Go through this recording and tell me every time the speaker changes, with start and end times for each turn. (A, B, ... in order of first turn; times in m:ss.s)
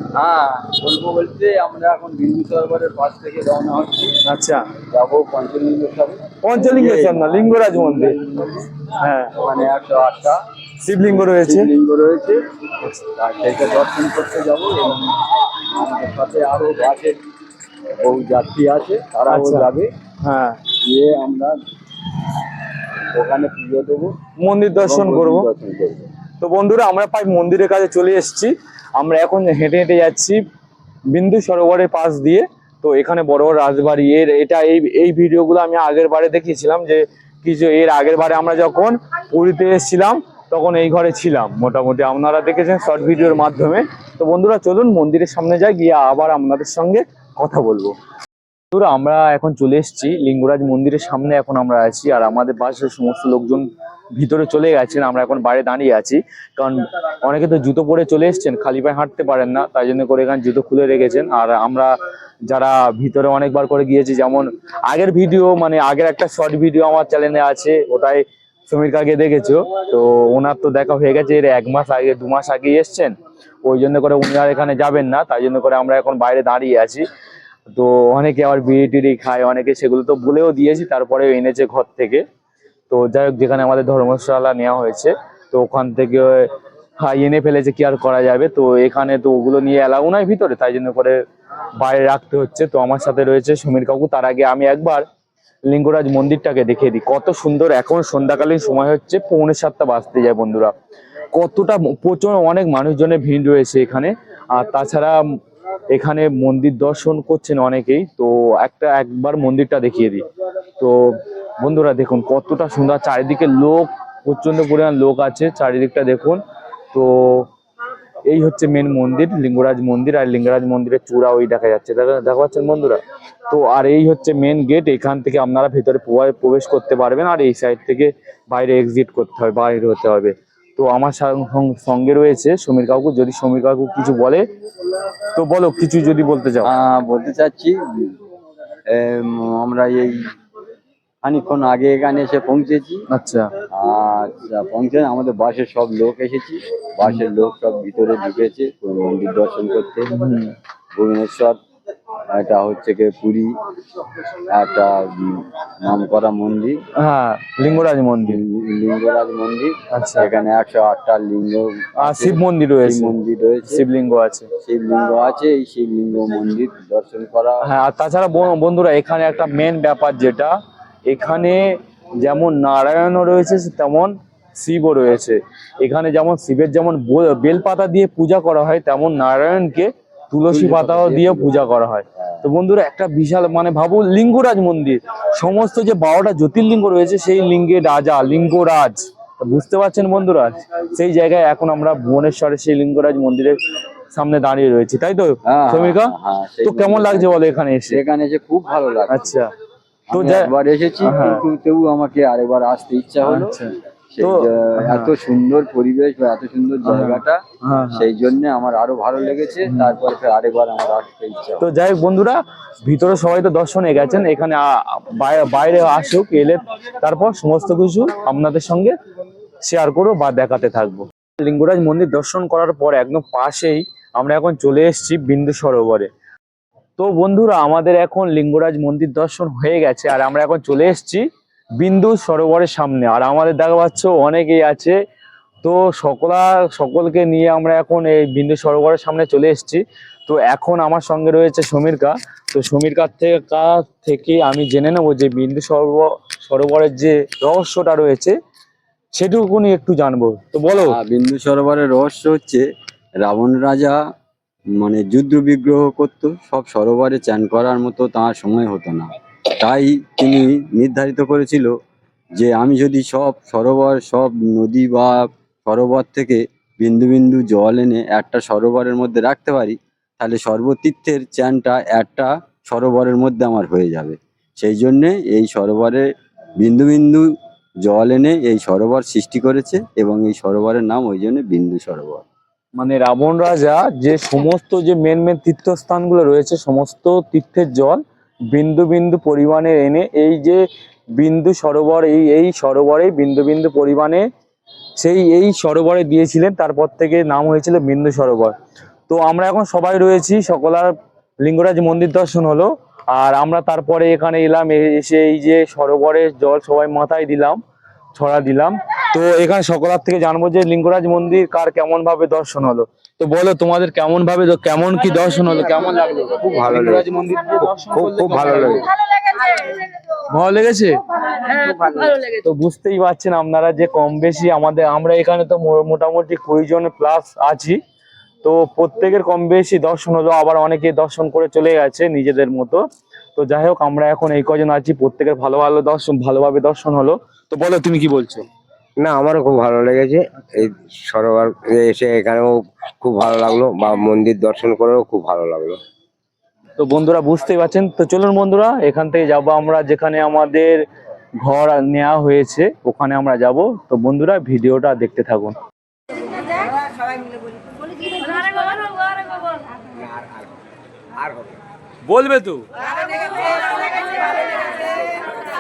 0:00.2-0:04.2 A
0:04.2-0:04.6 B
0:04.9-0:08.6 A
0:06.4-0:08.2 B
0:09.0-0:09.3 B
0:09.4-0:10.4 A
0:10.8-0:11.7 B
0:11.0-0:12.4 A
0:13.2-0:17.2 A
0:18.0-0:19.9 A
0:19.3-0:19.7 B
0:20.2-0:20.6 B
0:20.8-0:21.6 A
0:23.1-0:24.1 A
0:24.4-0:25.5 B
0:24.8-0:26.1 A
0:26.4-0:30.4 B
0:31.1-0:48.0 B
0:48.7-0:53.6 B
0:54.2-1:01.9 B
1:02.5-1:13.1 B
1:13.6-1:17.0 B
1:17.8-1:22.2 B
1:22.9-1:26.5 B
1:27.0-1:31.2 B
1:31.8-1:35.0 B
1:35.7-1:40.7 B
1:41.3-1:45.2 B
1:45.9-1:50.2 B
1:50.8-1:56.4 B
1:56.9-1:57.5 B
1:58.3-2:14.4 B
2:15.3-2:16.7 B
2:16.6-2:18.1 A
2:18.9-2:20.2 A
2:21.2-2:23.0 A
2:23.1-2:23.5 B
2:23.7-2:30.1 A
2:30.1-2:30.5 B
2:31.0-2:31.6 A
2:32.3-2:33.5 A
2:34.5-2:36.8 A
2:37.0-2:38.4 B
2:38.3-2:43.8 A
2:39.9-2:40.3 B
2:42.0-2:43.2 B
2:43.7-2:44.5 B
2:44.6-2:47.6 A
2:47.6-2:50.5 B
2:51.1-2:51.6 B
2:52.2-3:13.6 B
3:00.5-3:01.6 A
3:14.1-3:18.0 B
3:15.5-3:19.4 A
3:19.1-3:19.5 B
3:20.1-3:20.5 B
3:20.1-3:27.4 A
3:21.0-3:21.4 B
3:23.2-3:25.2 B
3:26.8-3:28.1 B
3:27.9-3:31.6 A
3:29.7-3:30.0 B
3:31.6-3:38.9 B
3:39.6-3:46.1 B
3:47.0-3:51.2 B
3:51.8-3:55.0 B
3:55.6-4:08.3 B
4:09.2-4:11.0 B
4:10.8-4:12.6 A
4:13.2-4:14.0 A
4:14.8-4:21.7 A
4:22.4-4:36.1 A
4:36.6-4:37.3 A
4:37.8-4:42.3 A
4:42.8-4:48.0 B
4:48.5-4:50.6 B
4:51.2-4:54.3 B
4:55.0-4:58.6 B
4:59.1-5:00.9 B
5:01.4-5:07.6 B
5:08.1-5:18.9 B
5:16.6-5:16.9 C
5:18.0-5:18.8 C
5:20.3-5:21.0 B
5:22.2-5:27.8 B
5:28.4-5:32.8 B
5:33.4-5:38.4 B
5:39.0-5:45.8 C
5:46.8-5:50.8 B
5:51.4-5:55.6 B
6:02.1-6:02.6 B